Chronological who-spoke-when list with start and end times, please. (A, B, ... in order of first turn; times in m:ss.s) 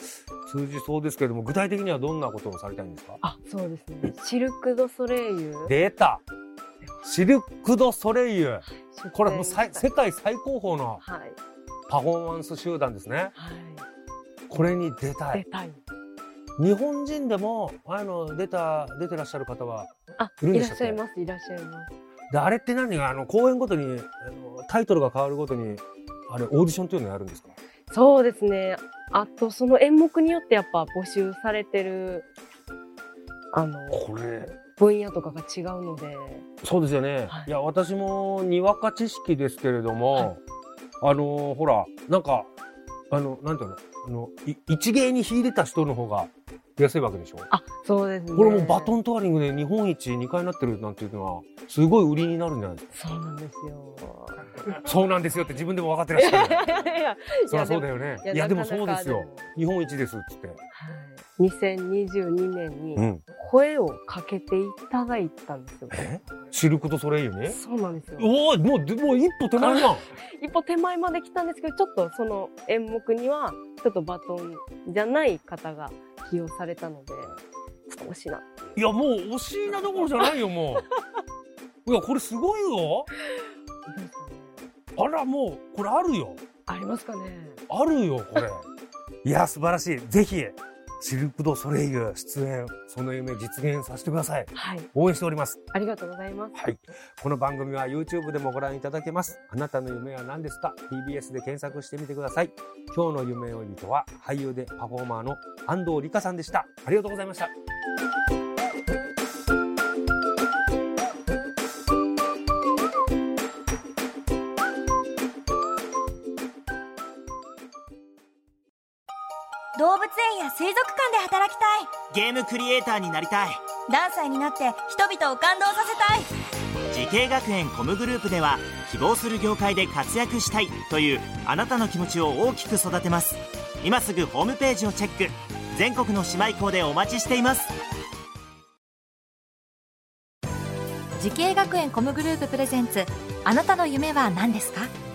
0:00.5-0:03.2 A
0:03.2-0:05.8 B
0:05.7-0:06.2 A
0:07.0-0:11.0 A
0:08.7-0:09.8 B
0:11.0-0:11.4 B
0:11.9-0:13.3 A
0:13.4-0:13.9 B
0:14.5-0:15.4 A
0:15.3-0:15.8 B
0:16.6-0:21.0 A
0:20.2-0:21.9 B
0:22.3-0:27.6 A
0:27.9-0:32.3 B
0:33.5-0:34.0 B
0:33.9-0:34.6 A
0:34.8-0:36.5 B
0:36.6-0:40.4 A
0:41.0-0:42.5 A
0:43.1-0:47.5 A
0:47.5-0:48.9 B
0:48.3-0:52.9 A
0:52.9-0:54.7 B
0:54.7-0:56.7 A
0:56.1-0:59.5 B
0:57.5-1:00.6 A
1:00.7-1:06.0 B
1:03.0-1:03.2 A
1:05.9-1:07.6 A
1:07.5-1:08.3 B
1:08.2-1:10.1 A
1:09.6-1:18.5 B
1:18.8-1:20.9 A
1:21.8-1:23.1 A
1:23.4-1:24.6 B
1:25.0-1:26.4 A
1:26.7-1:27.6 B
1:27.7-1:28.7 A
1:29.2-1:35.6 A
1:34.5-1:34.9 B
1:35.7-1:36.6 B
1:36.5-1:47.5 A
1:59.8-2:02.0 C
2:02.1-2:03.6 D
2:03.9-2:06.3 C
2:06.9-2:17.7 D
2:21.2-2:24.9 E